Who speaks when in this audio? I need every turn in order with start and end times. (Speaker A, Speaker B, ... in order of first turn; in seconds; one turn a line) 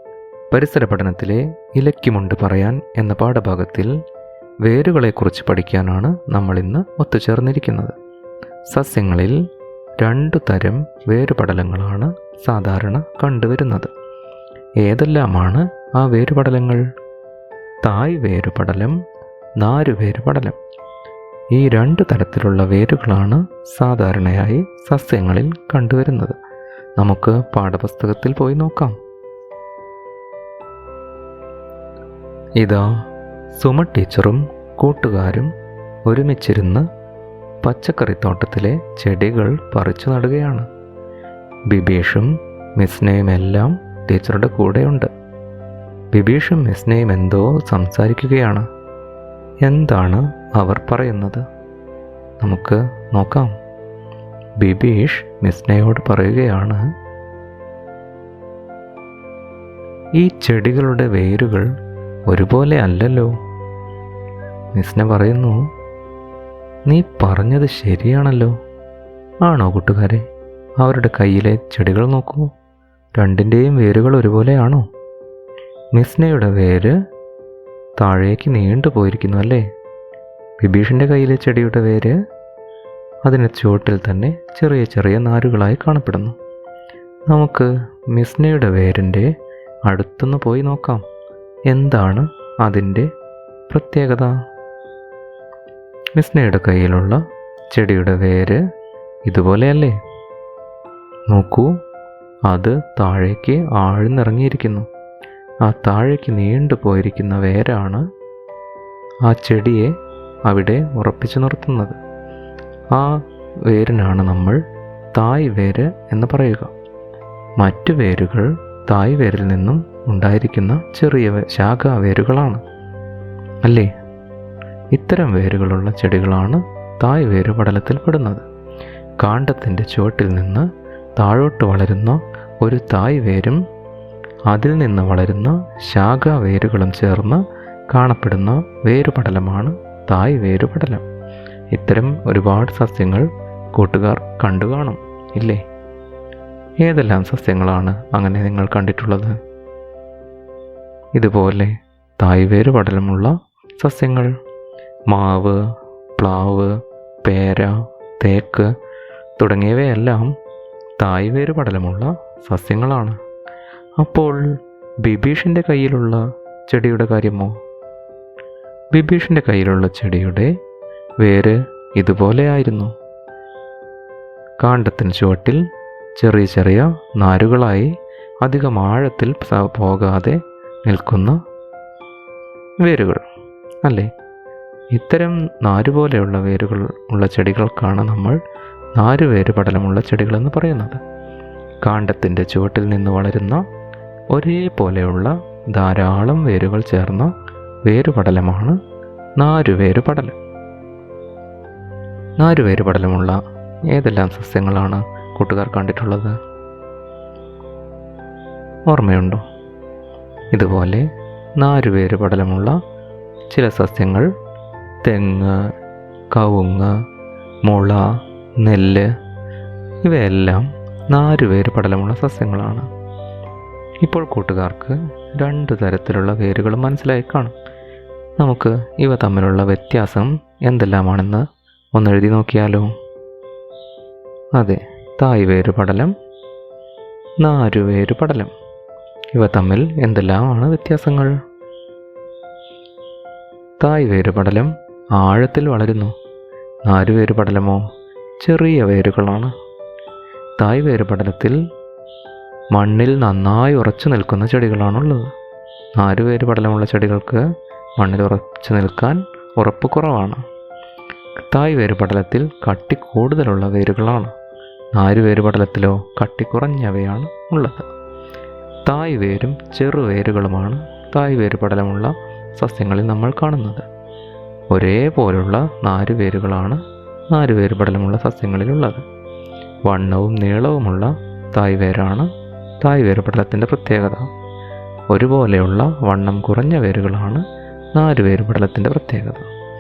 Speaker A: 0.5-4.0
Speaker A: 4.7-8.0
Speaker A: 8.7-9.4
Speaker A: 10.0-13.9
Speaker A: 14.8-16.8
Speaker A: 17.8-19.0
Speaker A: 19.6-20.6
Speaker A: 21.5-26.4
Speaker A: 27.0-29.0
Speaker A: 32.6-32.9
Speaker A: 33.5-35.5
Speaker A: 36.1-36.9
Speaker A: 37.6-40.7
Speaker A: 41.7-45.1
Speaker A: 46.1-48.7
Speaker A: 49.6-51.5
Speaker A: 52.4-53.5
Speaker A: 54.6-56.8
Speaker A: 60.2-61.7
Speaker A: 62.3-63.3
Speaker A: 64.7-65.6
Speaker A: 66.9-68.5
Speaker A: 69.5-70.2
Speaker A: 70.8-72.5
Speaker A: 73.2-74.8
Speaker A: 76.0-77.0
Speaker A: 78.0-79.7
Speaker A: 80.6-82.2
Speaker A: 83.2-86.3
Speaker A: 87.3-89.3
Speaker A: 89.9-91.0
Speaker A: 91.7-93.1
Speaker A: 93.7-94.3
Speaker A: 96.2-97.2
Speaker A: 97.7-98.6
Speaker A: 99.3-100.0
Speaker A: 101.3-101.7
Speaker A: 102.5-104.9
Speaker A: 105.7-108.0
Speaker A: 109.3-109.9
Speaker A: 110.5-112.0
Speaker A: 113.7-114.6
Speaker A: 115.2-116.7
Speaker A: 117.6-122.6
Speaker A: 123.6-123.9
Speaker A: 124.9-128.4
Speaker A: 129.2-133.6
Speaker A: 134.5-137.4
Speaker A: 137.9-141.0
Speaker A: 141.7-145.6
Speaker A: 146.8-149.4
Speaker A: 151.2-154.3
Speaker A: 155.1-155.6
Speaker A: 156.2-156.7
Speaker A: 157.2-158.7
Speaker A: 159.4-160.3
Speaker A: 161.0-163.2
Speaker A: 164.0-164.4
Speaker A: 165.0-167.5
Speaker A: 168.9-170.5
Speaker A: 171.2-172.9
Speaker A: 174.6-175.6
Speaker A: 176.2-177.9
Speaker A: 178.4-181.4
Speaker A: 182.8-183.2
Speaker A: 183.8-184.1
Speaker A: 184.9-188.4
Speaker A: 188.9-191.0
Speaker A: 191.8-193.6
Speaker A: 194.3-197.3
Speaker A: 197.9-198.8
Speaker A: 199.4-200.4
Speaker A: 202.4-203.4
Speaker A: 203.9-206.4
Speaker A: 208.9-209.4
Speaker A: 210.5-211.1
Speaker A: 211.6-212.8
Speaker A: 213.5-214.3
Speaker A: 215.0-215.7
Speaker A: 216.3-216.9
Speaker A: 217.7-218.1
Speaker A: 218.6-219.1
Speaker A: 220.1-222.9
Speaker A: 224.0-227.5
Speaker A: 228.4-232.9
Speaker A: 234.6-236.1
Speaker A: 237.4-238.5
Speaker A: 239.3-241.3
Speaker A: 243.8-246.1
Speaker A: 246.9-247.8
Speaker A: 248.4-249.5
Speaker A: 250.6-251.6
Speaker A: 252.7-255.3
Speaker A: 256.0-257.4
Speaker A: 258.0-260.4
Speaker A: 261.5-264.3
Speaker A: 264.9-267.9
Speaker A: 268.9-273.9
Speaker A: 274.7-276.8
Speaker A: 277.3-279.0
Speaker A: 279.9-282.3
Speaker A: 282.8-284.3
Speaker A: 285.1-289.5